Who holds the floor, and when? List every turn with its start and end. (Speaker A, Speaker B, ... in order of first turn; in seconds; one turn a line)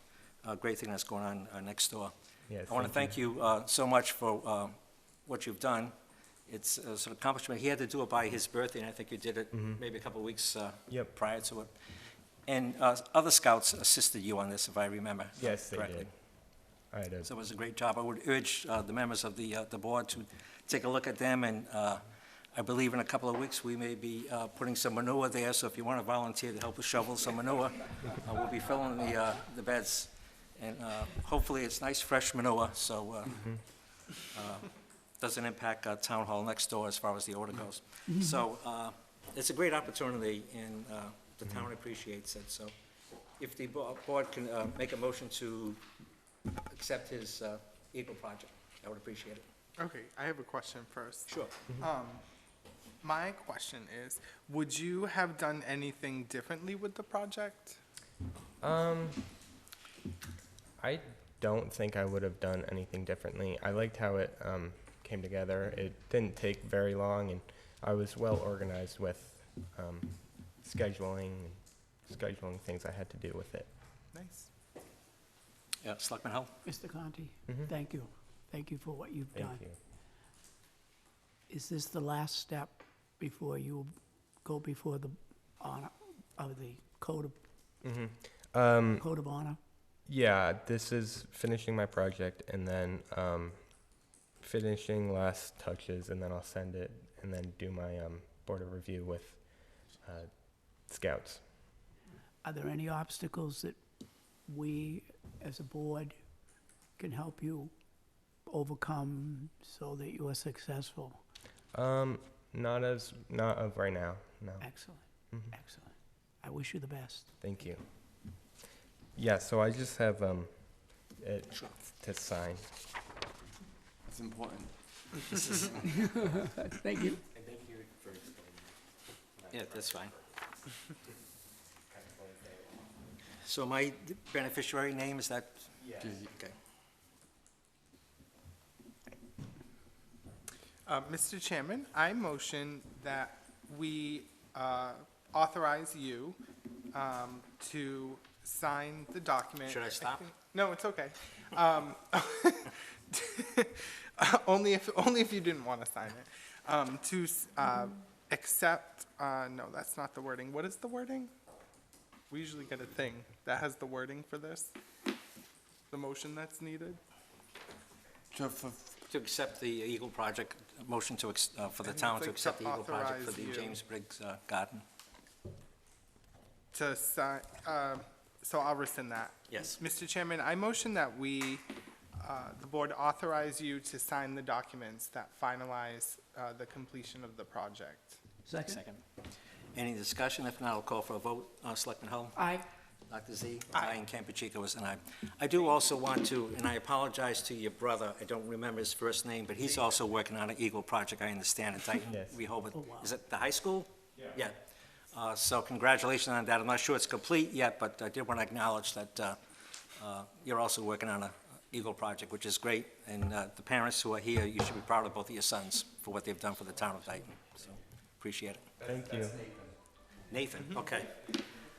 Speaker A: 0.4-2.1
Speaker B: 2.5-3.2
Speaker A: 2.7-5.9
Speaker A: 6.5-11.7
Speaker B: 9.5-9.8
Speaker A: 12.5-16.1
Speaker B: 15.4-16.2
Speaker B: 16.7-17.3
Speaker A: 17.2-33.6
Speaker A: 34.1-42.7
Speaker A: 43.4-45.8
Speaker A: 46.7-49.5
Speaker C: 49.8-52.2
Speaker A: 51.2-51.6
Speaker C: 53.0-57.8
Speaker B: 58.6-59.3
Speaker B: 60.8-73.7
Speaker C: 74.1-74.5
Speaker A: 75.8-76.5
Speaker D: 76.6-79.6
Speaker B: 79.3-79.8
Speaker D: 81.5-87.4
Speaker B: 87.8-89.0
Speaker D: 89.0-89.6
Speaker B: 90.0-101.5
Speaker D: 102.4-103.8
Speaker D: 104.4-106.2
Speaker D: 107.0-107.7
Speaker D: 108.4-111.2
Speaker B: 111.7-115.5
Speaker D: 114.6-117.3
Speaker B: 117.4-117.8
Speaker B: 119.2-122.7
Speaker E: 124.1-125.7
Speaker D: 126.0-127.2
Speaker B: 127.3-128.8
Speaker B: 129.4-131.0
Speaker A: 129.5-130.1
Speaker B: 131.9-132.9
Speaker A: 133.4-136.5
Speaker B: 135.8-136.1
Speaker C: 140.8-146.4
Speaker C: 146.9-161.3
Speaker A: 149.7-150.2
Speaker C: 162.3-164.7
Speaker C: 165.9-167.0
Speaker E: 168.3-168.9
Speaker A: 169.1-174.8
Speaker C: 171.8-173.8
Speaker C: 176.7-181.7
Speaker A: 179.5-179.8
Speaker C: 182.2-188.2
Speaker D: 188.4-188.8
Speaker A: 188.6-189.0
Speaker A: 189.8-192.4
Speaker D: 192.3-192.7
Speaker A: 193.1-204.6
Speaker B: 202.1-202.4
Speaker D: 202.8-203.1
Speaker A: 205.1-209.4
Speaker A: 209.9-218.7
Speaker B: 218.8-219.6
Speaker A: 220.3-221.3